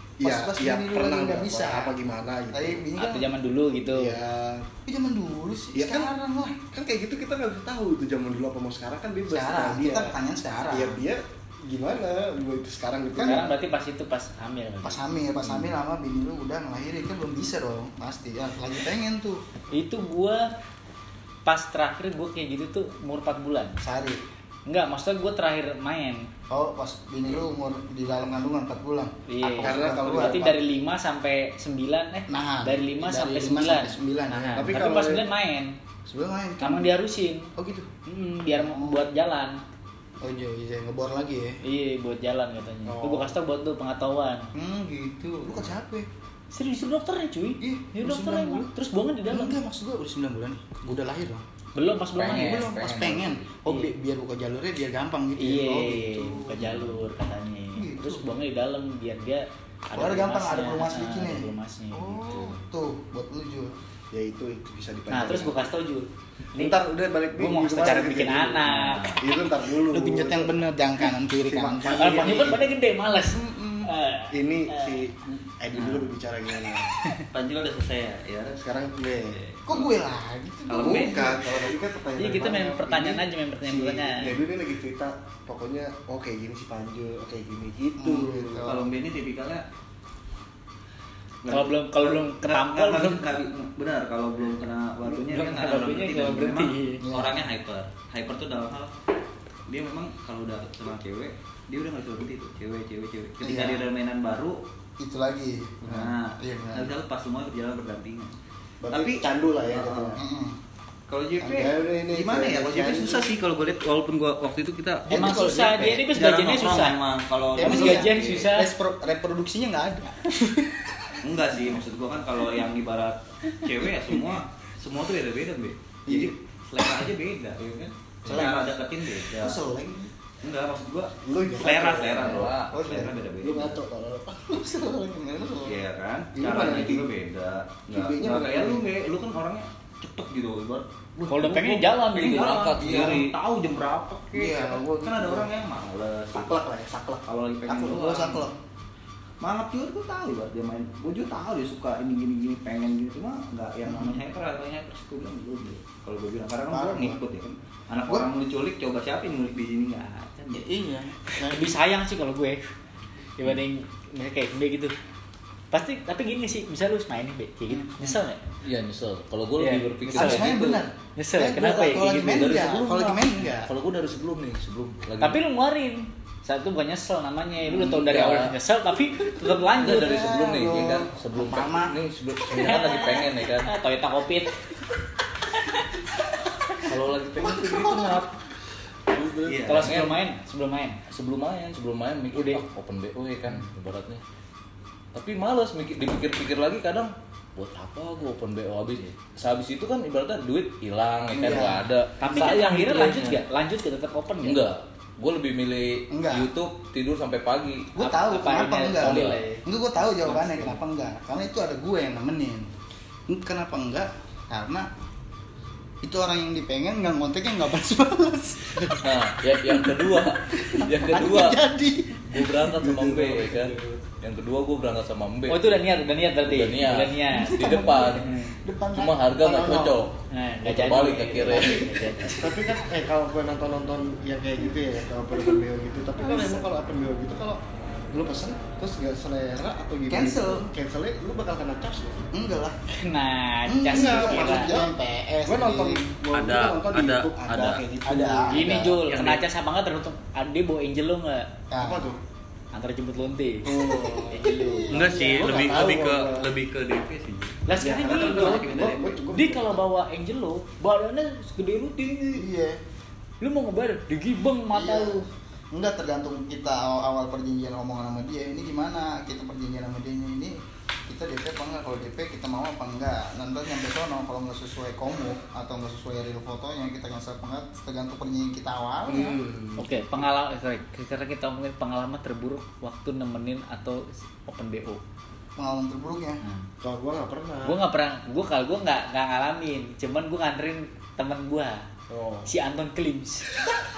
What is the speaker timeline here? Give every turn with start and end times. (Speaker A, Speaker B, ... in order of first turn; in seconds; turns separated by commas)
Speaker A: 0.2-2.8, Speaker B: 0.2-1.9, Speaker B: 2.5-3.3, Speaker C: 3.0-4.1, Speaker A: 3.9-4.7, Speaker B: 4.8-6.6, Speaker A: 5.7-6.1, Speaker A: 6.7-10.1, Speaker B: 9.3-11.0, Speaker A: 10.7-13.5, Speaker B: 13.2-13.5, Speaker C: 13.2-15.1, Speaker B: 14.8-19.4, Speaker A: 15.4-15.7, Speaker C: 19.7-20.4, Speaker C: 21.4-23.7, Speaker B: 23.8-24.2, Speaker C: 24.7-26.2, Speaker B: 26.5-30.6, Speaker C: 29.3-35.7, Speaker A: 29.6-30.5, Speaker B: 32.3-34.8, Speaker A: 34.4-35.2, Speaker B: 36.1-36.9, Speaker C: 36.6-37.5, Speaker B: 37.5-39.0, Speaker C: 38.0-39.6, Speaker B: 40.2-41.6, Speaker C: 41.6-44.5, Speaker A: 42.9-43.3, Speaker B: 44.5-46.1, Speaker C: 46.5-49.6, Speaker B: 47.6-48.7, Speaker B: 49.3-51.4, Speaker C: 51.8-52.7, Speaker D: 52.1-53.5, Speaker B: 52.2-57.0, Speaker C: 53.6-53.9, Speaker C: 55.4-62.4, Speaker B: 57.7-58.3, Speaker B: 59.9-63.8, Speaker A: 64.1-65.7, Speaker C: 65.1-66.8, Speaker A: 66.5-70.6, Speaker C: 67.3-69.2, Speaker E: 68.7-69.2, Speaker B: 69.8-72.7, Speaker A: 71.1-72.7, Speaker C: 71.9-75.4, Speaker B: 73.2-73.9, Speaker A: 74.3-77.0, Speaker E: 75.7-76.1, Speaker E: 77.3-78.6, Speaker A: 78.5-79.4, Speaker E: 79.3-79.9, Speaker B: 79.7-81.7, Speaker E: 80.7-81.7, Speaker A: 80.8-88.7, Speaker C: 82.2-84.3, Speaker B: 88.0-88.9, Speaker E: 88.6-89.7, Speaker E: 91.4-98.9, Speaker C: 91.5-93.2, Speaker C: 95.1-97.0, Speaker B: 97.0-97.4, Speaker E: 99.7-104.6, Speaker B: 103.4-103.9, Speaker B: 105.0-106.9, Speaker E: 105.9-108.3, Speaker A: 108.8-110.2, Speaker E: 108.9-110.2, Speaker B: 110.2-110.6, Speaker E: 111.1-115.4, Speaker B: 111.4-111.7, Speaker A: 111.4-113.2, Speaker B: 115.1-116.1, Speaker C: 115.1-117.0, Speaker E: 116.1-118.5, Speaker B: 117.5-121.7, Speaker C: 117.6-118.7, Speaker E: 121.2-129.6, Speaker B: 126.1-126.3, Speaker B: 128.2-130.1, Speaker E: 130.4-133.8, Speaker A: 131.2-134.5, Speaker D: 132.1-132.7, Speaker B: 132.7-133.1, Speaker B: 134.5-135.8, Speaker E: 135.6-146.7, Speaker A: 136.3-137.1, Speaker A: 137.9-138.8, Speaker C: 141.3-142.7, Speaker D: 142.1-143.3, Speaker B: 142.8-143.2, Speaker B: 144.3-145.5, Speaker B: 146.3-148.5, Speaker E: 147.2-148.5, Speaker E: 149.4-160.7, Speaker B: 153.8-154.2, Speaker B: 156.7-157.2, Speaker B: 160.5-161.8, Speaker C: 161.4-162.7, Speaker C: 163.4-164.9, Speaker C: 165.7-168.4, Speaker B: 167.7-168.2, Speaker D: 168.6-170.8, Speaker C: 169.6-170.5, Speaker B: 170.0-173.7, Speaker C: 171.2-172.6, Speaker D: 171.8-175.4, Speaker C: 175.2-180.2, Speaker D: 177.7-178.6, Speaker D: 179.7-183.7, Speaker B: 179.8-182.0, Speaker C: 182.5-184.7, Speaker D: 186.8-188.3, Speaker B: 187.7-188.2, Speaker D: 189.1-190.2, Speaker E: 189.4-189.9, Speaker C: 189.7-191.0, Speaker D: 191.1-194.2, Speaker C: 192.3-192.6, Speaker D: 195.1-203.4, Speaker B: 201.3-201.9, Speaker C: 202.2-204.6, Speaker D: 204.4-207.9, Speaker B: 206.1-206.5, Speaker B: 207.9-212.7, Speaker C: 208.0-209.6, Speaker D: 208.9-209.4, Speaker D: 210.1-210.7, Speaker B: 213.3-214.9, Speaker B: 216.0-222.8, Speaker D: 219.0-221.6, Speaker D: 222.3-225.8, Speaker A: 222.8-224.0, Speaker C: 225.5-227.6, Speaker D: 226.4-228.3, Speaker B: 227.3-230.1, Speaker C: 228.1-228.6, Speaker D: 228.9-231.9, Speaker C: 230.3-232.5, Speaker A: 231.5-242.4, Speaker B: 232.2-232.6, Speaker B: 235.3-235.6, Speaker B: 236.2-236.7, Speaker B: 240.1-240.7, Speaker B: 242.3-242.8, Speaker C: 242.9-244.7, Speaker B: 243.7-246.0, Speaker A: 243.9-244.9, Speaker A: 245.4-248.9, Speaker D: 246.3-247.8, Speaker B: 248.0-249.0, Speaker C: 248.5-251.5, Speaker B: 251.7-252.1, Speaker A: 251.8-252.2, Speaker C: 252.7-255.3, Speaker A: 253.6-256.5, Speaker B: 253.8-255.7, Speaker E: 254.9-259.1, Speaker C: 257.7-262.4, Speaker A: 257.8-259.8, Speaker B: 262.3-262.8, Speaker C: 263.4-265.2, Speaker B: 264.7-265.2, Speaker B: 265.7-279.4, Speaker A: 279.1-280.2, Speaker C: 279.8-285.0, Speaker B: 285.6-286.4, Speaker A: 286.8-287.8, Speaker C: 287.6-291.8, Speaker A: 292.1-292.5, Speaker C: 292.4-293.5